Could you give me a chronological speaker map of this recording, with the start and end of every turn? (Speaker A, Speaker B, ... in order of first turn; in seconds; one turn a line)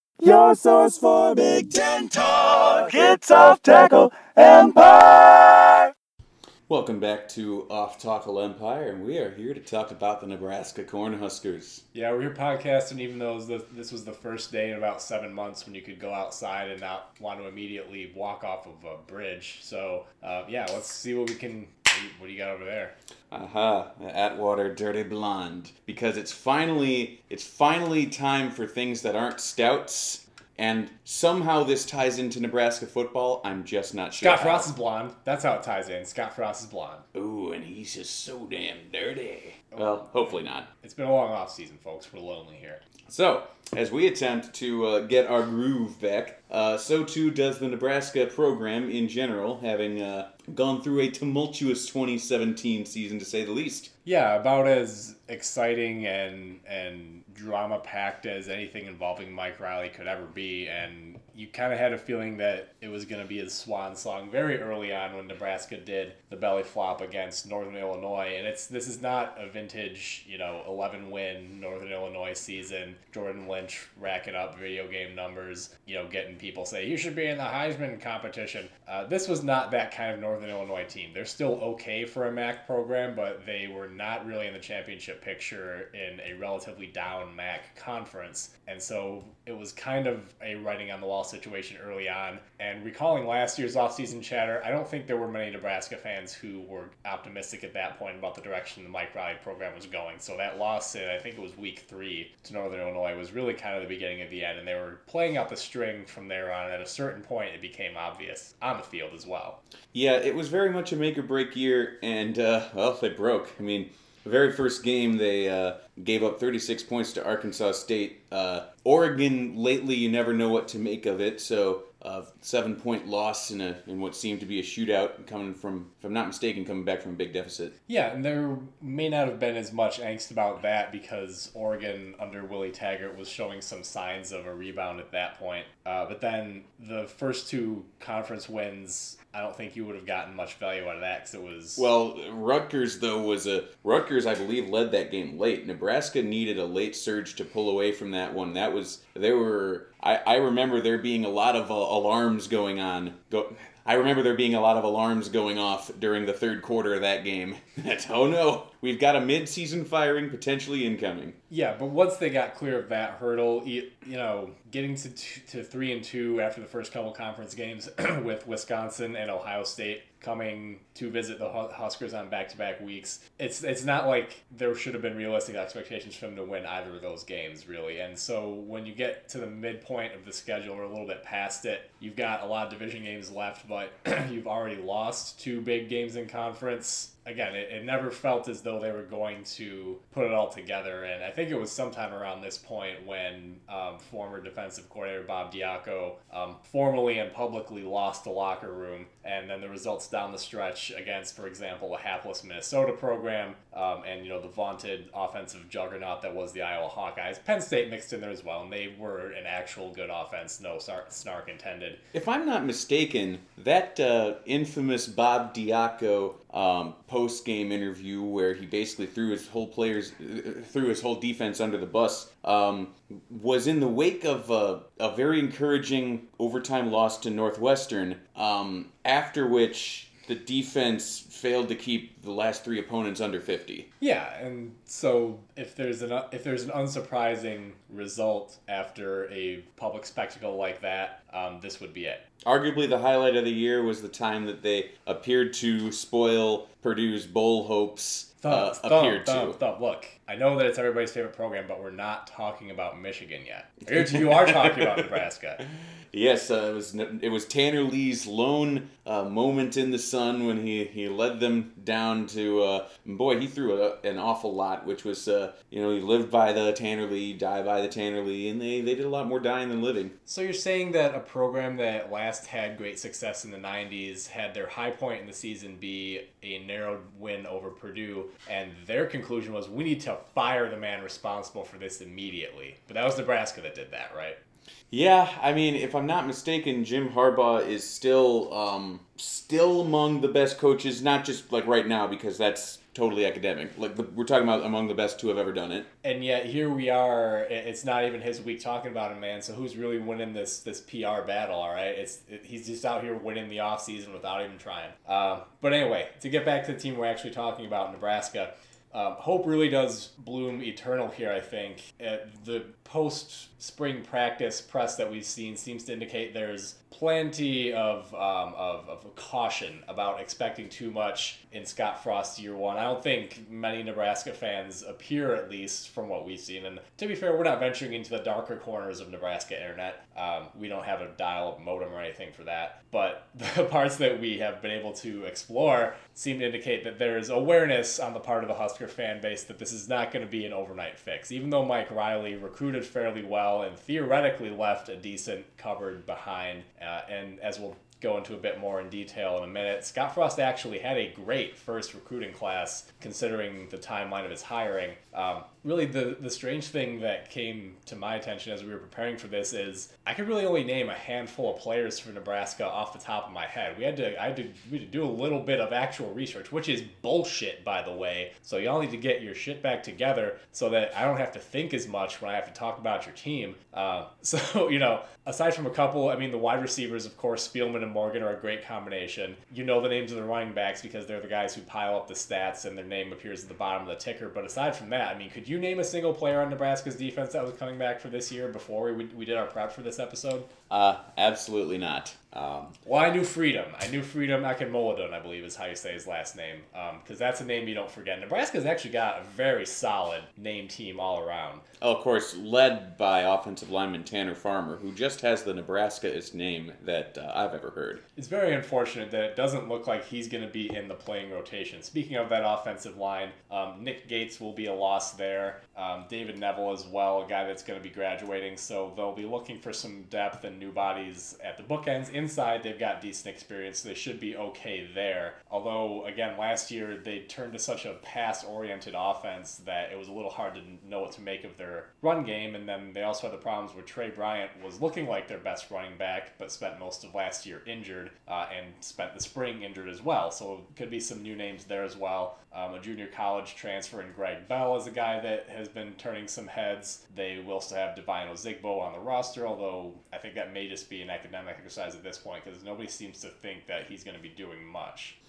Speaker A: 0.2-5.8
Speaker B: 6.7-11.8
Speaker C: 11.9-22.9
Speaker B: 23.3-34.7
Speaker C: 34.2-37.0
Speaker B: 37.1-40.7
Speaker C: 39.7-42.8
Speaker B: 43.1-53.9
Speaker C: 54.0-109.6
Speaker B: 109.9-127.7
Speaker C: 127.9-141.9
Speaker B: 141.8-161.4
Speaker C: 161.5-212.0
Speaker B: 212.1-233.9
Speaker C: 234.0-242.2
Speaker B: 242.5-249.6
Speaker C: 248.4-255.6
Speaker B: 253.9-255.1
Speaker B: 256.1-270.1
Speaker C: 270.3-284.4
Speaker B: 284.9-295.9
Speaker C: 296.0-390.5
Speaker B: 390.7-392.7
Speaker C: 392.8-401.6
Speaker B: 401.8-408.0
Speaker C: 408.2-455.2